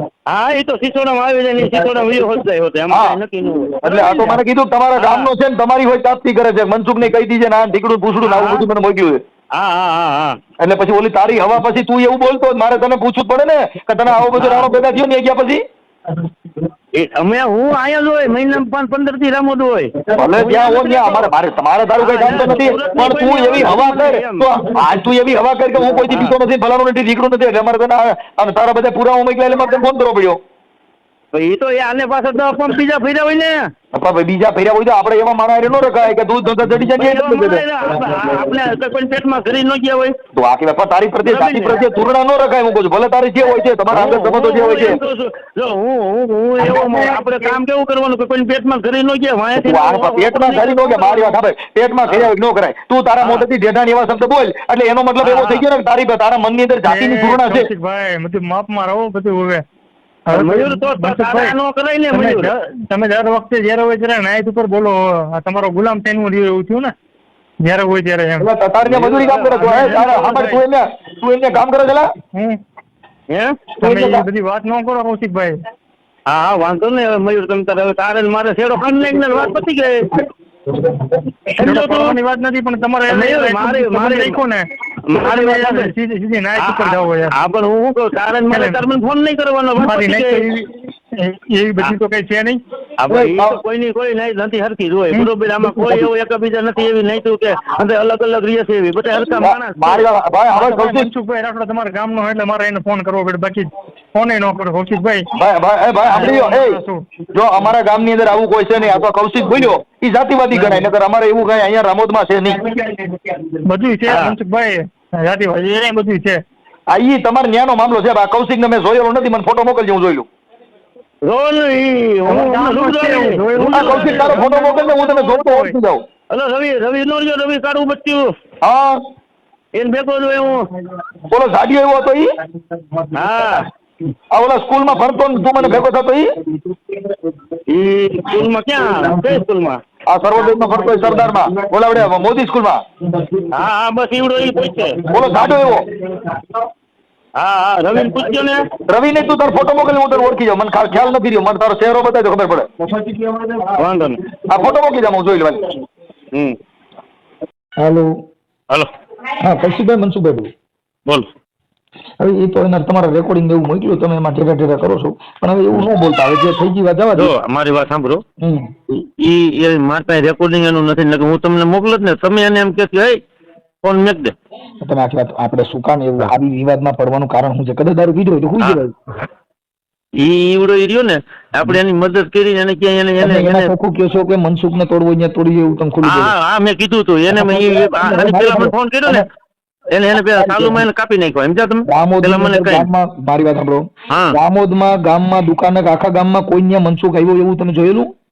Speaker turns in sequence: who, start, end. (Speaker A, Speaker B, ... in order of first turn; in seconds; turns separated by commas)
Speaker A: 0.3-4.4, Speaker B: 2.9-3.2, Speaker B: 3.8-9.2, Speaker A: 5.0-5.3, Speaker A: 8.2-8.6, Speaker A: 9.5-10.3, Speaker B: 10.6-15.6, Speaker A: 14.3-14.7, Speaker A: 16.9-21.3, Speaker B: 20.1-30.4, Speaker A: 22.0-24.5, Speaker A: 26.1-26.3, Speaker A: 31.3-33.5, Speaker B: 33.9-37.7, Speaker A: 37.0-40.1, Speaker B: 40.3-45.0, Speaker A: 41.2-41.8, Speaker A: 43.9-51.3, Speaker B: 49.5-57.7, Speaker A: 53.2-53.5, Speaker A: 55.2-55.6, Speaker C: 56.8-59.6, Speaker C: 60.3-61.5, Speaker A: 60.3-62.5, Speaker C: 62.1-66.9, Speaker C: 67.6-68.5, Speaker B: 68.4-72.1, Speaker A: 68.8-70.3, Speaker C: 69.6-70.6, Speaker A: 73.3-73.6, Speaker C: 73.8-75.6, Speaker B: 73.8-74.2, Speaker A: 76.3-80.2, Speaker A: 81.5-82.2, Speaker C: 81.6-84.6, Speaker A: 83.1-84.4, Speaker A: 85.1-85.9, Speaker C: 85.2-87.3, Speaker A: 86.6-90.5, Speaker C: 88.5-88.8, Speaker C: 89.8-92.6, Speaker A: 93.0-100.1, Speaker B: 93.1-93.6, Speaker B: 95.6-96.1, Speaker B: 99.4-101.1, Speaker C: 100.5-105.3, Speaker B: 105.3-106.8, Speaker C: 106.1-107.0, Speaker B: 107.3-112.6, Speaker A: 112.7-113.2, Speaker C: 113.6-116.4, Speaker A: 114.1-114.3, Speaker B: 116.9-120.3, Speaker A: 121.2-124.5, Speaker C: 122.3-125.8, Speaker B: 123.7-126.0, Speaker A: 126.3-128.2, Speaker B: 128.6-129.0, Speaker A: 129.8-130.7, Speaker B: 131.3-132.3, Speaker A: 133.1-133.7, Speaker B: 134.3-136.3, Speaker A: 137.7-139.8, Speaker B: 140.1-142.8, Speaker A: 143.5-145.5, Speaker B: 145.1-145.8, Speaker A: 147.4-148.7, Speaker B: 148.9-152.7, Speaker A: 153.8-154.3, Speaker B: 154.5-155.8, Speaker B: 157.8-158.1, Speaker B: 159.4-160.5, Speaker B: 162.2-167.3, Speaker A: 167.2-168.2, Speaker A: 168.9-173.2, Speaker A: 173.8-174.3, Speaker B: 174.8-178.9, Speaker A: 180.2-183.7, Speaker B: 183.2-186.3, Speaker A: 186.0-189.2, Speaker B: 187.3-189.2, Speaker A: 189.9-192.9, Speaker B: 190.3-190.8, Speaker B: 191.9-198.1, Speaker A: 194.1-194.3